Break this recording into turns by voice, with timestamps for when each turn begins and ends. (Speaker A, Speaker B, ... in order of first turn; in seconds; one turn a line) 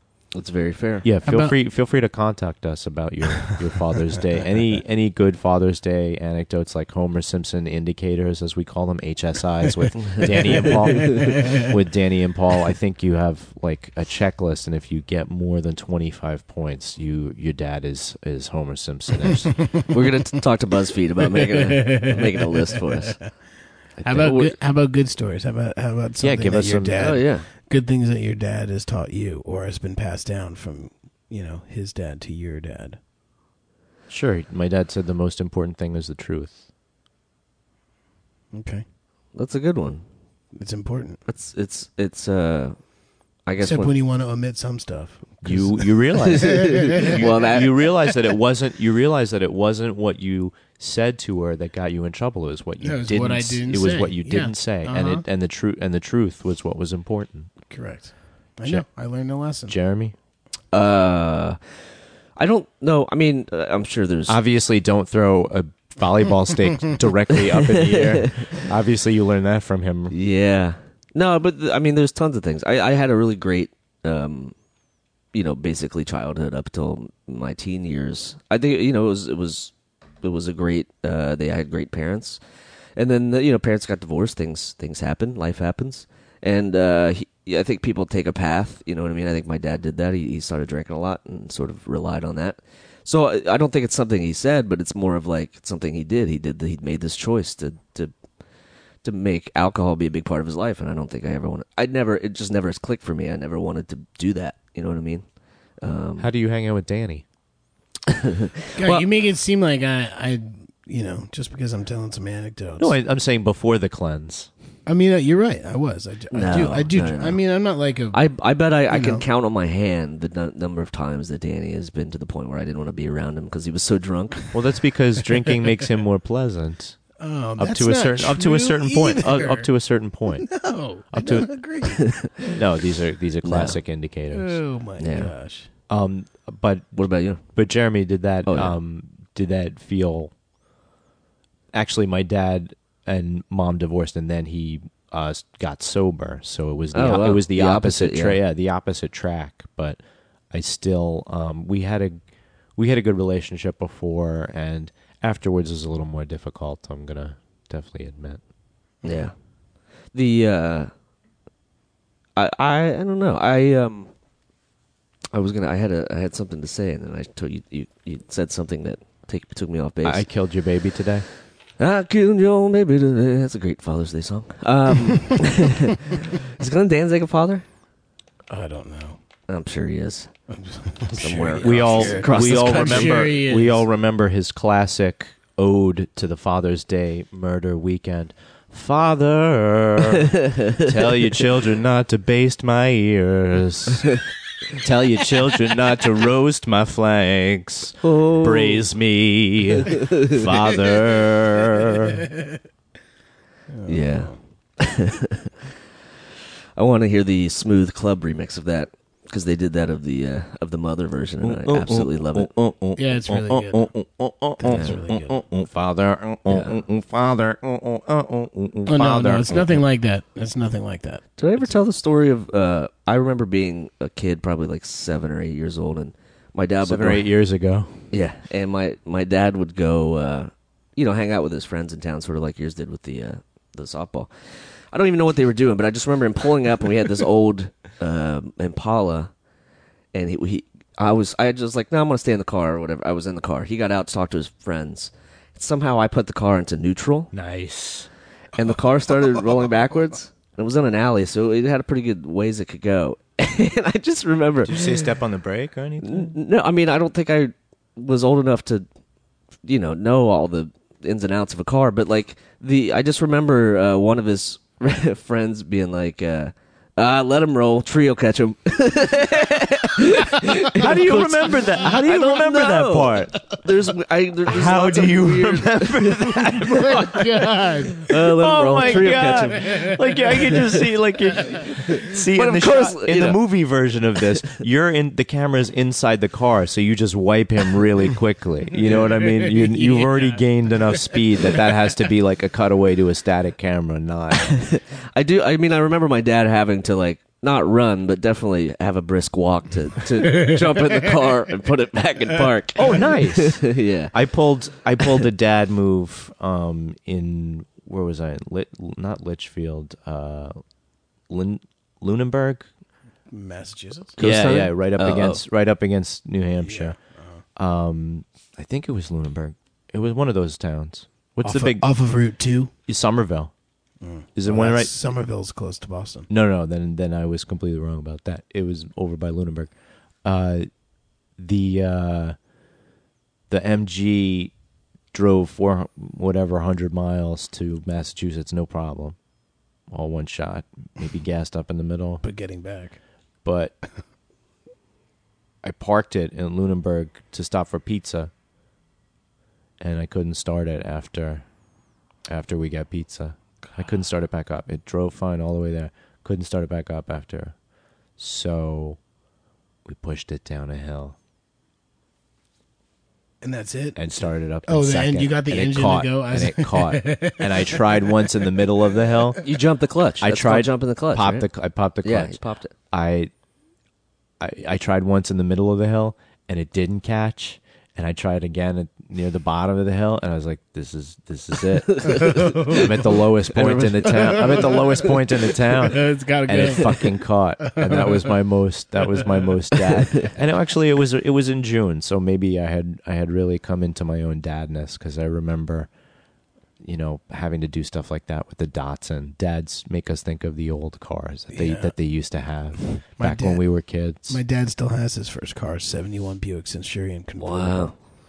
Speaker A: 0.3-1.1
Speaker B: 1.0-19.7
Speaker C: 1.2-1.6
Speaker A: 10.0-10.3
Speaker C: 10.2-11.6
Speaker A: 19.8-23.2
Speaker C: 21.4-23.0
Speaker A: 24.0-24.6
Speaker C: 24.0-33.0
Speaker B: 26.2-27.1
Speaker A: 27.0-27.5
Speaker B: 34.1-36.6
Speaker C: 38.5-38.8
Speaker A: 39.3-40.0
Speaker C: 40.5-41.2
Speaker A: 41.3-42.9
Speaker A: 43.4-43.9
Speaker C: 43.6-47.2
Speaker B: 45.4-57.5
Speaker A: 46.3-47.9
Speaker C: 52.8-55.2
Speaker C: 57.7-59.7
Speaker B: 59.7-60.1
Speaker A: 60.7-61.6
Speaker A: 62.4-64.4
Speaker B: 64.3-70.1
Speaker A: 67.6-68.7
Speaker A: 70.1-74.5
Speaker A: 75.3-82.4
Speaker A: 83.0-98.1
Speaker A: 99.0-105.2
Speaker A: 105.8-106.3
Speaker B: 106.2-107.2
Speaker A: 108.1-109.0
Speaker C: 108.8-112.9
Speaker B: 112.8-114.5
Speaker C: 114.9-118.2
Speaker A: 116.3-117.4
Speaker A: 118.1-124.5
Speaker C: 118.9-119.2
Speaker B: 124.5-127.0
Speaker C: 127.2-129.7
Speaker B: 127.6-131.5
Speaker C: 130.4-132.5
Speaker B: 132.5-134.6
Speaker A: 133.4-133.8
Speaker C: 134.3-135.7
Speaker A: 135.0-135.3
Speaker B: 135.9-137.0
Speaker A: 136.9-137.5
Speaker B: 137.6-140.3
Speaker A: 138.4-138.7
Speaker B: 141.7-150.0
Speaker A: 146.9-148.4
Speaker B: 150.5-152.2
Speaker B: 152.8-158.4
Speaker A: 159.0-159.3
Speaker A: 160.1-160.9
Speaker A: 162.4-164.1
Speaker A: 165.3-170.2
Speaker B: 170.0-171.2
Speaker A: 171.8-177.6
Speaker C: 178.5-179.2
Speaker A: 179.5-180.3
Speaker C: 180.5-183.8
Speaker A: 181.2-183.3
Speaker B: 181.6-194.1
Speaker A: 190.4-190.8
Speaker B: 194.8-202.2
Speaker A: 198.0-198.8
Speaker A: 199.9-200.4
Speaker C: 203.7-204.4
Speaker A: 203.9-205.5
Speaker A: 206.8-212.5
Speaker B: 211.4-219.8
Speaker C: 212.9-213.9
Speaker C: 214.6-215.3
Speaker A: 216.5-216.8
Speaker C: 218.9-221.2
Speaker A: 221.4-227.2
Speaker B: 226.8-228.0
Speaker A: 228.1-234.3
Speaker A: 234.9-239.3
Speaker A: 240.1-247.3
Speaker B: 247.3-248.1
Speaker A: 248.6-255.1
Speaker B: 254.6-256.3
Speaker A: 256.0-258.8
Speaker A: 259.6-277.0
Speaker B: 270.4-273.4
Speaker B: 274.4-277.3
Speaker C: 276.7-277.9
Speaker A: 278.0-279.9
Speaker B: 278.1-294.6
Speaker A: 281.6-283.4
Speaker C: 289.2-290.4
Speaker A: 294.4-304.1
Speaker B: 302.7-310.6
Speaker B: 311.3-312.7
Speaker C: 313.3-314.1
Speaker A: 314.2-315.4
Speaker B: 314.2-317.0
Speaker C: 316.6-317.4
Speaker B: 317.6-321.9
Speaker C: 321.4-322.7
Speaker B: 322.9-323.5
Speaker C: 324.0-326.3
Speaker B: 324.4-324.9
Speaker B: 326.3-329.7
Speaker B: 330.2-330.7
Speaker B: 331.4-332.4
Speaker B: 333.5-334.5
Speaker B: 335.1-339.2
Speaker B: 339.9-342.2
Speaker C: 342.2-343.0
Speaker B: 343.4-343.8
Speaker B: 345.6-348.3
Speaker B: 349.8-351.4
Speaker B: 352.3-357.6
Speaker B: 358.2-359.0
Speaker B: 359.9-361.1
Speaker C: 363.4-368.2
Speaker B: 363.9-369.4
Speaker A: 369.4-371.5
Speaker B: 370.2-372.4
Speaker A: 372.0-372.7
Speaker B: 372.9-373.3
Speaker B: 374.4-395.9
Speaker A: 381.9-382.2
Speaker C: 382.1-382.9
Speaker A: 383.6-384.4
Speaker C: 384.1-388.4
Speaker B: 396.8-404.4
Speaker C: 401.5-401.9
Speaker C: 402.8-403.6
Speaker C: 404.3-407.9
Speaker A: 407.4-407.9